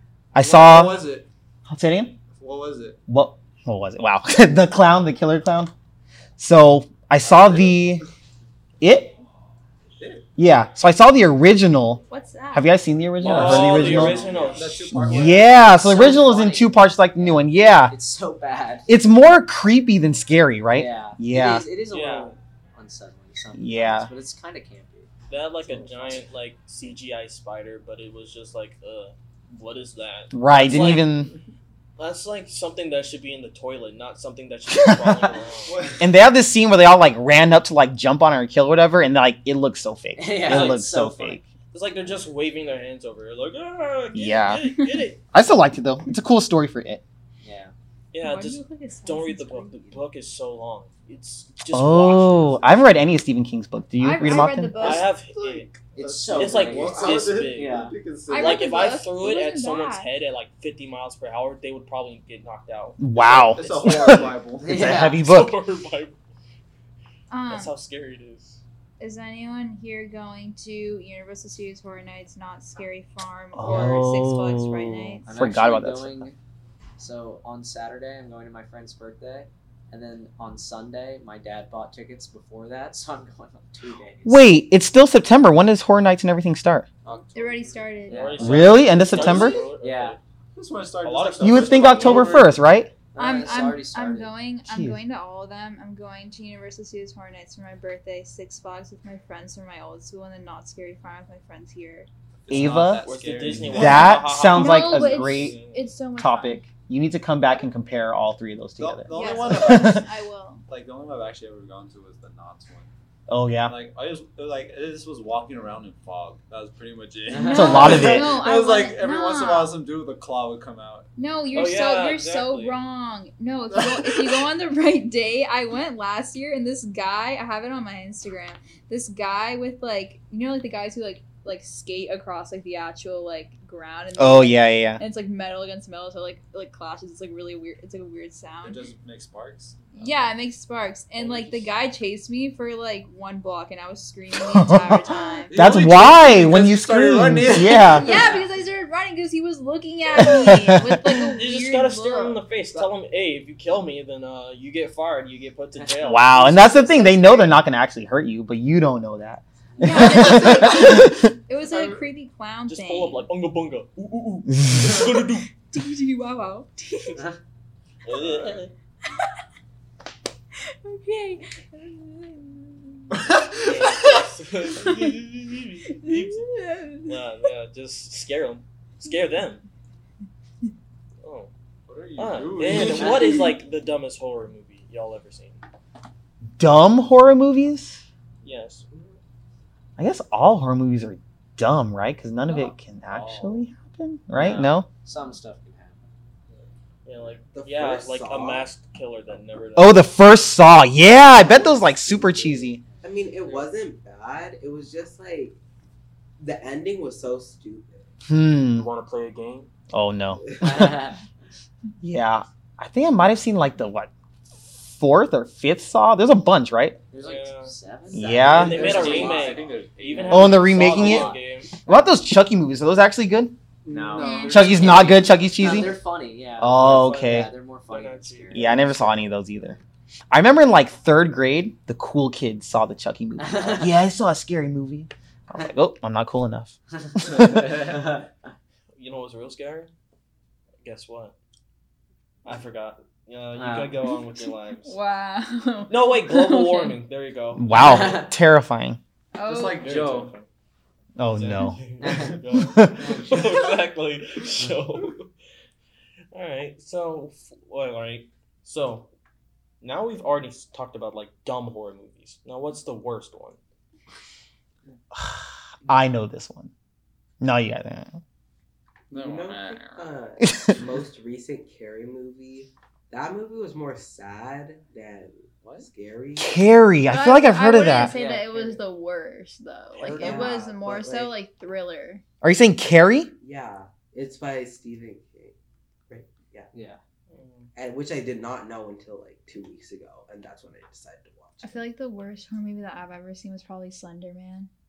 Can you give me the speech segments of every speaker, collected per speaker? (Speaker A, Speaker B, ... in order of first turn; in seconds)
Speaker A: 0.3-1.0, 1.7-2.1, 3.1-5.7, 6.4-8.0, 8.8-9.1, 10.4-14.2, 15.0-17.9, 18.9-21.6, 23.6-24.1, 30.3-31.3, 36.0-41.4, 44.1-44.6, 45.3-47.0, 51.7-55.0, 63.0-65.5, 73.5-76.3, 84.2-86.8, 88.4-89.6, 91.4-92.9, 94.7-95.0, 102.5-105.5, 106.2-110.1, 113.3-113.7, 117.5-118.4, 134.2-135.0, 144.3-148.1, 150.2-151.1, 156.0-161.2, 164.5-164.9, 186.6-188.0, 190.0-194.9, 199.8-202.8, 208.3-208.9, 209.9-211.0, 212.0-217.0, 218.1-218.9, 220.3-221.3, 221.8-223.5, 224.5-226.0, 226.6-227.5, 228.5-229.8, 230.3-237.8, 247.5-249.0, 251.2-251.8, 265.1-266.7, 267.4-268.2, 270.4-270.7, 276.4-278.1, 282.4-283.3
Speaker B: 0.4-1.3, 2.3-3.0, 7.2-8.0, 10.0-10.3, 13.2-15.8, 30.7-31.3, 35.6-36.1, 55.3-58.7, 63.2-64.7, 87.0-88.0, 88.9-89.6, 90.5-92.6, 102.4-104.2, 108.8-110.0, 110.7-112.9, 113.7-121.1, 123.9-124.3, 138.6-140.2, 141.2-141.7, 145.5-148.4, 161.6-162.0, 168.1-168.7, 173.2-173.6, 181.9-183.3, 192.5-193.7, 218.4-220.7, 223.8-225.2, 237.3-237.8, 249.4-250.3, 269.1-270.1, 275.6-275.9
Speaker C: 12.1-12.7, 48.2-49.9, 54.0-55.1, 58.2-60.1, 67.3-67.7, 69.0-75.3, 87.3-88.3, 93.2-102.1, 104.5-106.7, 109.1-110.6, 117.3-119.7, 121.2-138.8, 139.9-145.9, 147.8-152.4, 156.9-157.6, 159.8-163.3, 165.5-167.3, 170.8-173.1, 174.8-175.1, 175.9-177.2, 183.1-183.4, 224.2-224.7, 244.8-247.0, 249.3-250.0, 277.1-282.2, 291.6-294.7
Speaker D: 13.2-15.4, 21.9-22.3, 25.3-31.1, 32.0-35.8, 40.4-40.8, 41.7-45.2, 48.1-52.7, 54.8-55.7, 56.3-57.8, 58.3-63.0, 65.1-66.2, 67.5-68.6, 88.1-90.2, 91.0-92.3, 103.0-105.9, 121.5-122.8, 151.3-156.6, 162.7-165.5, 168.1-168.7, 173.6-176.4, 177.1-179.7, 181.2-181.5, 182.2-185.6, 188.4-188.8, 197.0-200.1, 208.7-209.7, 217.2-217.7, 218.5-221.7, 226.8-228.9, 238.9-239.9, 240.8-241.3, 242.4-244.9, 245.9-247.7, 249.7-250.5, 251.3-255.3, 256.3-259.1, 259.8-263.6, 287.3-287.7
Speaker E: 14.3-14.6, 15.5-18.9, 20.7-26.3, 40.2-41.4, 47.4-47.7, 56.0-57.9, 64.6-65.2, 75.2-76.4, 77.0-84.5, 88.0-90.2, 93.1-94.4, 117.3-118.2, 155.8-156.8, 159.7-160.6, 194.3-196.1, 201.0-203.3, 210.6-211.2, 217.1-221.4, 223.9-229.0, 233.4-234.0, 243.5-244.0, 247.8-248.3, 252.0-252.4, 253.0-253.6, 278.0-278.8, 280.0-280.4, 286.7-287.0
Speaker F: 197.4-198.7, 203.0-205.6, 206.4-208.1, 269.1-276.6, 280.1-281.4, 283.4-285.5, 286.1-286.7, 287.7-291.8